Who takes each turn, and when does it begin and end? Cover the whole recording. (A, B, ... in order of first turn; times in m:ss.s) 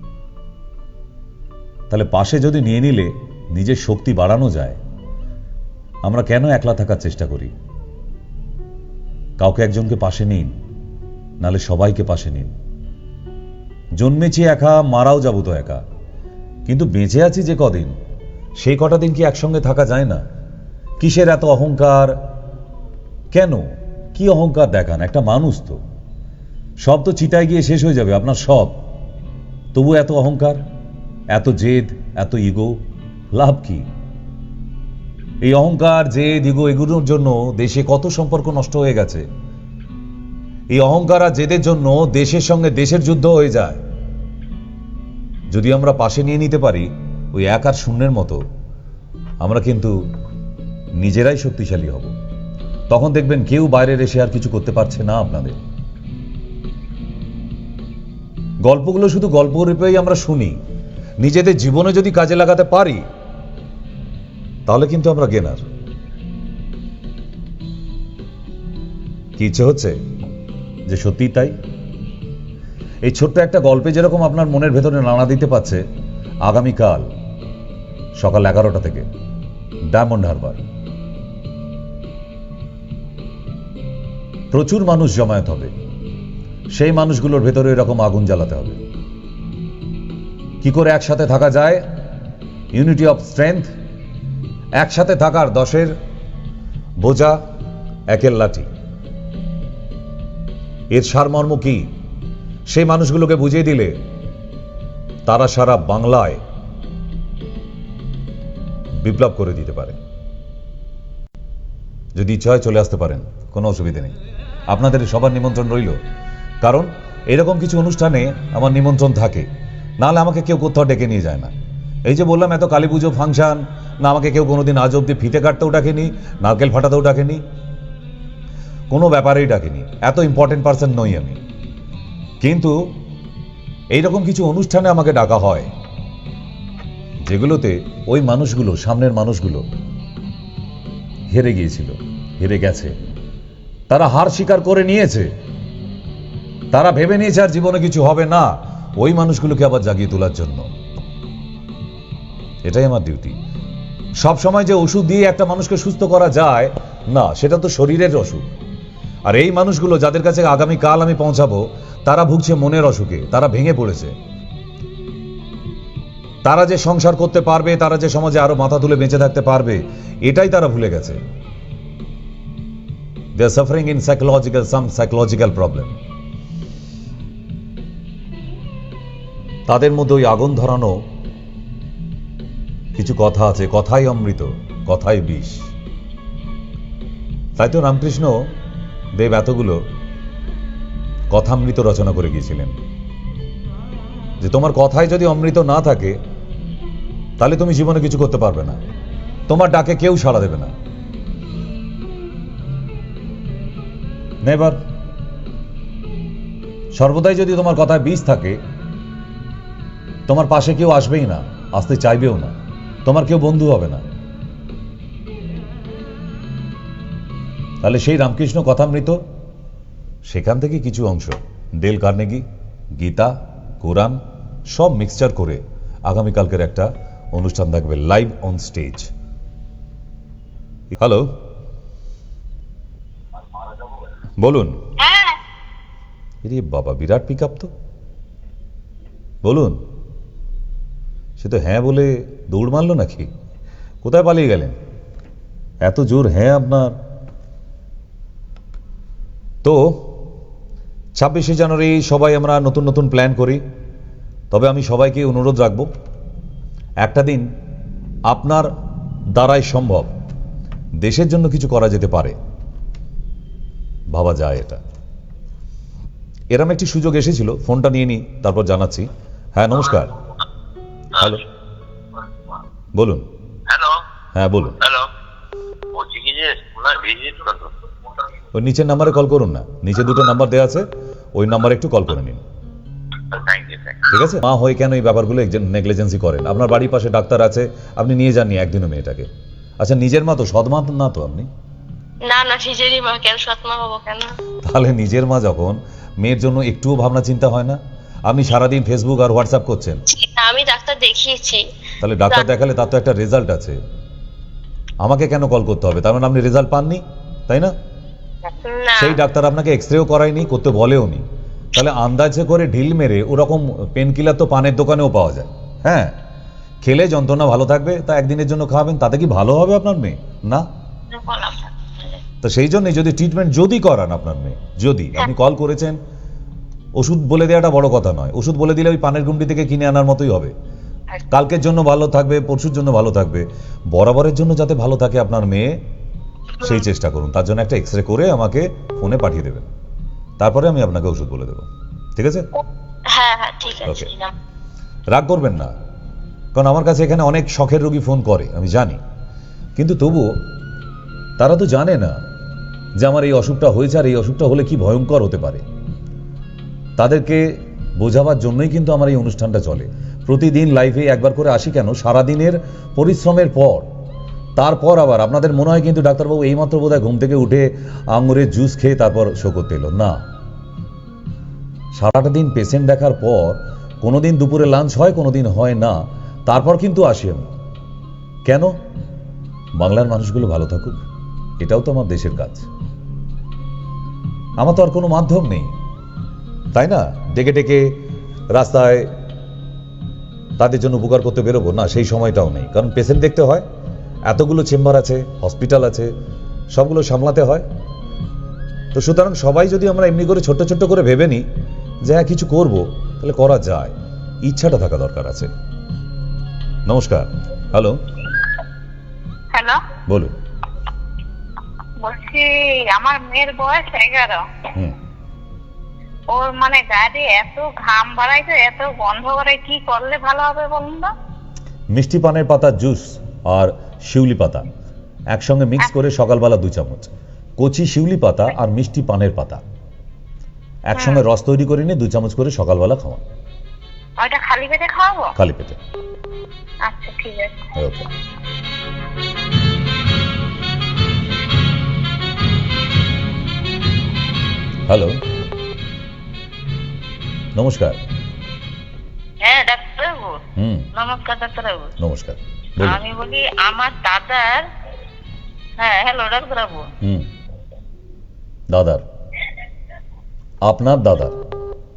0:01.9-0:04.8 A
0:06.0-0:07.5 A
0:09.4-0:10.5 A
0:11.4-0:12.5 A
0:14.0-0:15.8 A
0:16.7-0:17.9 A
0:18.6-0:20.2 A
0:21.0-0:22.2 A
0:23.3-0:25.8 A
0:26.8-0:28.8 A
0:29.7-0:30.6 A
0:31.3-0:32.8 A
0:33.3-0:33.9 A
0:35.4-0:39.2 A
0:40.7-0:43.8 A
0:45.5-0:48.4 A
0:49.4-0:49.9 A
0:51.0-0:52.1 A
0:52.9-0:55.6 A
0:58.6-1:00.6 A
1:01.2-1:03.0 A
1:04.7-1:05.6 A
1:09.4-1:09.9 A
1:10.9-1:11.5 A
1:13.0-1:15.8 A
1:16.4-1:17.1 A
1:18.2-1:19.0 A
1:19.9-1:20.6 A
1:24.5-1:25.7 A
1:26.7-1:28.8 A
1:30.6-1:31.8 A
1:32.7-1:33.7 A
1:34.8-1:35.9 A
1:37.0-1:37.4 A
1:38.1-1:38.7 A
1:40.9-1:41.9 A
1:42.7-1:43.9 A
1:45.2-1:46.4 A
1:49.0-1:50.0 A
1:52.1-1:54.1 A
1:54.7-1:56.0 A
1:56.6-1:59.5 A
2:00.0-2:01.5 A
2:02.1-2:07.4 A
2:08.9-2:11.4 A
2:12.4-2:12.7 A
2:13.9-2:15.7 A
2:17.2-2:19.6 A
2:21.3-2:22.9 A
2:23.9-2:25.3 A
2:26.7-2:30.7 A
2:32.6-2:33.4 A
2:34.2-2:38.5 A
2:39.3-2:44.1 A
2:46.4-2:51.2 A
2:53.4-2:55.9 A
2:59.7-3:01.0 A
3:03.0-3:05.7 A
3:07.6-3:08.4 A
3:09.1-3:09.8 A
3:11.3-3:12.7 A
3:14.4-3:16.2 A
3:17.4-3:18.8 A
3:19.5-3:20.7 A
3:24.4-3:24.8 A
3:26.9-3:28.6 A
3:30.3-3:34.0 A
3:37.8-3:39.2 A
3:40.3-3:42.4 A
3:43.0-3:49.1 A
3:50.9-3:51.3 A
3:54.4-3:54.8 A
3:55.0-3:55.4 B
3:56.4-3:57.7 A
3:59.4-3:59.8 A
4:01.4-4:03.3 A
4:04.0-4:04.8 A
4:05.8-4:07.0 A
4:09.6-4:10.1 A
4:11.2-4:13.6 A
4:14.5-4:15.9 A
4:17.0-4:17.5 A
4:18.3-4:18.7 A
4:19.3-4:20.1 A
4:21.0-4:22.4 A
4:24.1-4:24.8 A
4:26.5-4:30.1 A
4:31.2-4:31.4 A
4:33.0-4:33.3 A
4:33.7-4:34.0 C
4:34.3-4:34.8 A
4:34.8-4:35.1 C
4:35.9-4:37.7 C
4:38.5-4:42.4 A
4:43.3-4:44.0 C
4:44.1-4:49.3 A
4:49.8-4:51.5 A
4:52.2-4:54.3 B
4:54.6-5:00.0 A
5:00.1-5:01.6 B
5:02.0-5:03.8 A
5:05.0-5:07.7 A
5:08.6-5:09.2 B
5:09.0-5:11.2 A
5:11.8-5:16.2 A
5:16.8-5:20.7 A
5:21.1-5:21.7 B
5:22.4-5:26.0 A
5:27.0-5:30.5 A
5:31.3-5:35.8 A
5:36.6-5:39.7 A
5:40.4-5:42.5 A
5:43.1-5:44.3 B
5:43.8-5:44.1 A
5:45.1-5:45.7 A
5:46.5-5:49.0 A
5:49.8-5:50.3 A
5:51.4-5:52.2 A
5:53.0-5:55.6 A
5:57.0-6:03.9 A
6:04.6-6:10.2 A
6:12.0-6:16.0 A
6:16.5-6:17.5 A
6:18.4-6:18.7 A
6:19.8-6:21.0 A
6:21.6-6:22.7 A
6:24.6-6:25.7 A
6:26.7-6:28.0 A
6:28.5-6:29.1 A
6:30.6-6:33.6 A
6:34.3-6:36.1 A
6:36.7-6:37.6 A
6:38.9-6:41.4 A
6:42.0-6:43.9 A
6:44.4-6:45.5 A
6:46.9-6:48.0 A
6:50.1-6:50.3 A
6:52.0-6:54.4 D
6:56.3-7:01.1 D
7:01.9-7:04.6 A
7:05.3-7:09.6 A
7:10.9-7:13.2 A
7:14.2-7:15.3 D
7:15.4-7:15.8 A
7:16.8-7:17.6 D
7:17.8-7:18.0 A
7:24.9-7:25.2 A
7:27.6-7:28.0 A
7:29.4-7:30.4 D
7:30.6-7:30.9 A
7:30.9-7:31.9 D
7:32.0-7:33.0 A
7:32.8-7:34.7 D
7:35.8-7:36.9 D
7:37.0-7:37.3 A
7:38.7-7:39.0 A
7:40.6-7:41.4 A